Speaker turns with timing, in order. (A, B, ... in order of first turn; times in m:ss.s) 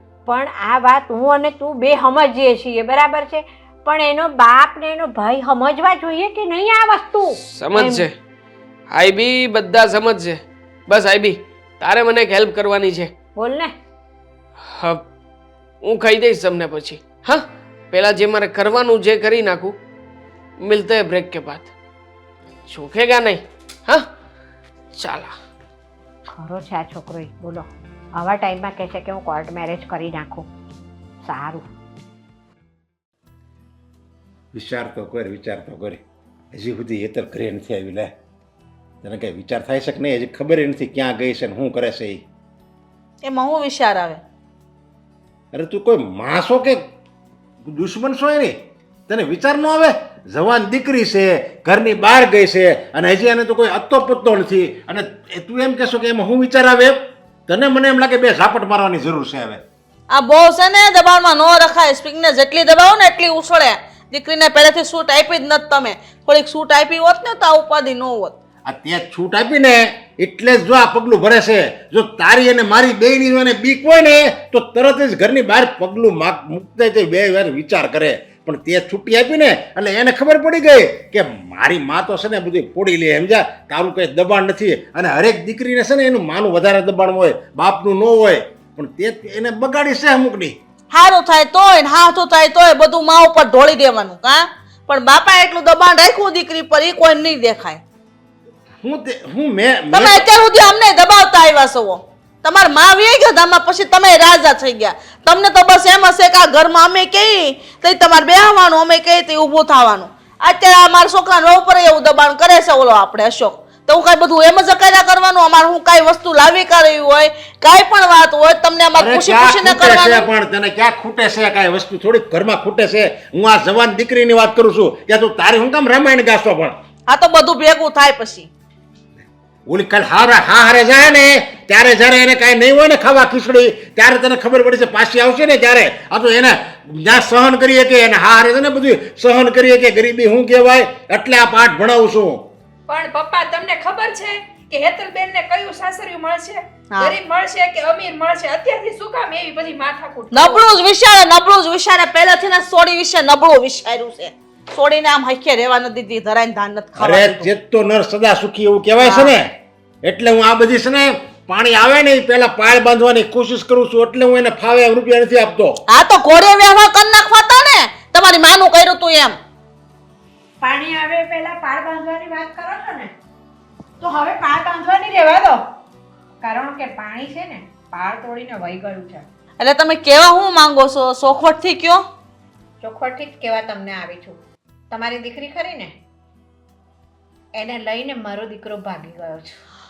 0:00.3-0:08.0 A
0:07.5-0:08.1 B
0:08.9-0:13.1 B
0:13.4-0:13.7 A
0:14.7-0:15.0 B
0:15.8-0:19.8 B
0:20.6-0:21.7 B
0:22.7-0:24.0 B
0:24.9-0:25.3 B
0:26.4-0:27.7 A
0:28.2-0:30.5 A
0:31.2-0:31.6 A
0:34.5-0:36.0 C
0:36.5-0:38.1 C
0:39.0-0:42.2 C
0:43.2-0:44.2 D
0:45.5-0:46.8 C
0:47.6-0:48.6 C
0:49.1-0:59.6 C
1:00.1-1:08.4 D
1:08.7-1:30.6 C
1:30.9-1:37.8 D
1:38.8-1:40.2 C
1:39.9-2:00.3 D
1:59.0-2:06.8 C
2:07.1-2:08.5 D
2:09.7-2:22.5 C
2:22.9-2:30.6 E
2:26.9-2:27.2 D
2:30.3-2:37.5 D
2:37.0-2:39.5 C
2:39.0-2:39.3 D
2:40.0-2:45.8 C
2:45.9-2:49.4 D
2:50.6-2:53.1 A
2:54.0-2:55.6 A
2:56.4-2:59.2 A
2:59.6-3:02.0 D
3:02.8-3:04.4 A
3:04.9-3:05.9 A
3:07.6-3:09.6 A